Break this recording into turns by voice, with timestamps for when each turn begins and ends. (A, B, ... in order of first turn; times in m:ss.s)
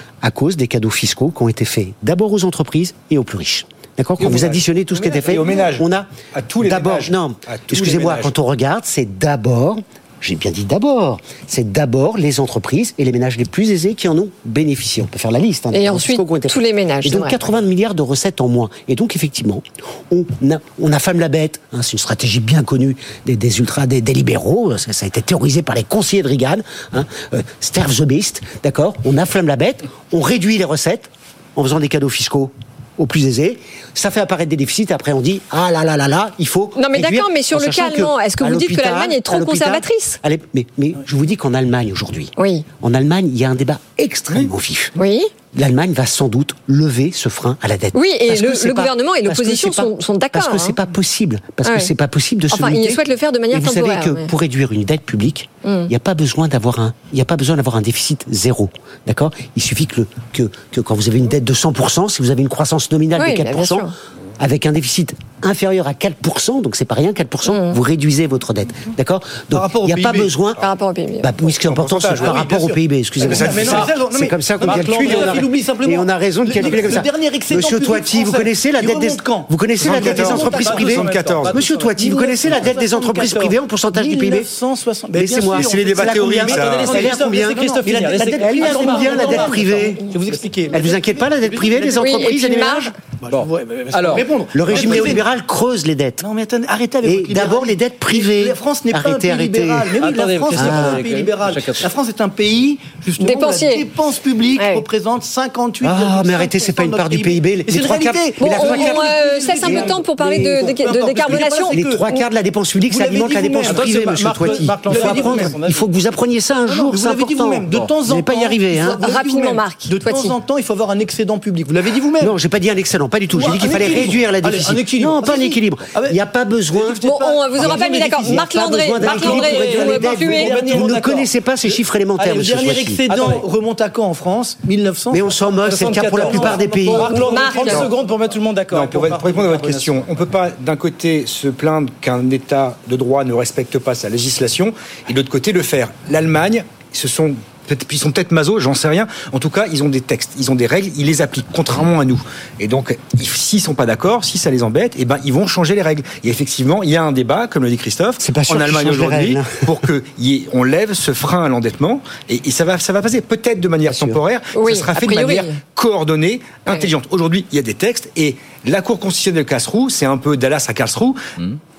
0:00.2-0:06.1 A
0:04.2-0:08.3 B
0:06.6-0:44.9 A
0:15.7-0:17.4 C
0:36.8-0:40.2 C
0:42.4-0:42.6 C
0:45.0-0:45.3 C
0:45.5-1:10.6 A
0:47.9-0:50.8 C
0:51.6-0:51.9 C
0:52.5-0:54.3 C
0:55.6-0:55.9 C
1:03.2-1:03.9 C
1:07.5-1:07.8 C
1:09.5-1:10.3 D
1:10.6-1:11.3 C
1:11.2-1:24.5 A
1:11.6-1:12.5 B
1:12.2-1:20.9 D
1:13.3-1:13.9 B
1:14.6-1:15.5 E
1:16.6-1:17.0 B
1:19.8-1:21.6 B
1:20.0-1:22.0 E
1:22.0-1:32.0 D
1:25.1-1:30.0 A
1:25.5-1:27.0 B
1:26.0-1:29.9 E
1:30.7-1:32.9 A
1:32.0-1:32.9 C
1:33.2-1:35.2 D
1:33.2-1:35.2 E
1:34.5-1:36.2 A
1:36.2-1:52.0 D
1:37.0-1:40.0 A
1:40.0-1:41.9 E
1:40.6-1:41.1 A
1:43.2-1:43.8 C
1:44.6-1:44.8 C
1:45.8-1:50.6 A
1:48.4-1:52.2 C
1:51.3-1:59.0 A
1:52.9-1:55.6 D
1:53.4-1:55.9 E
1:56.7-2:02.3 D
1:59.0-2:00.4 C
2:02.2-2:07.0 A
2:03.3-2:06.2 D
2:06.7-2:11.1 D
2:07.0-2:10.5 C
2:07.6-2:13.0 A
2:09.2-2:11.3 E
2:12.2-2:17.7 D
2:13.0-2:13.4 E
2:15.1-2:17.3 A
2:15.6-2:20.1 E
2:17.1-2:17.9 C
2:18.7-2:51.2 B
2:38.2-2:39.8 A
2:43.9-2:44.2 A
2:44.5-2:45.6 C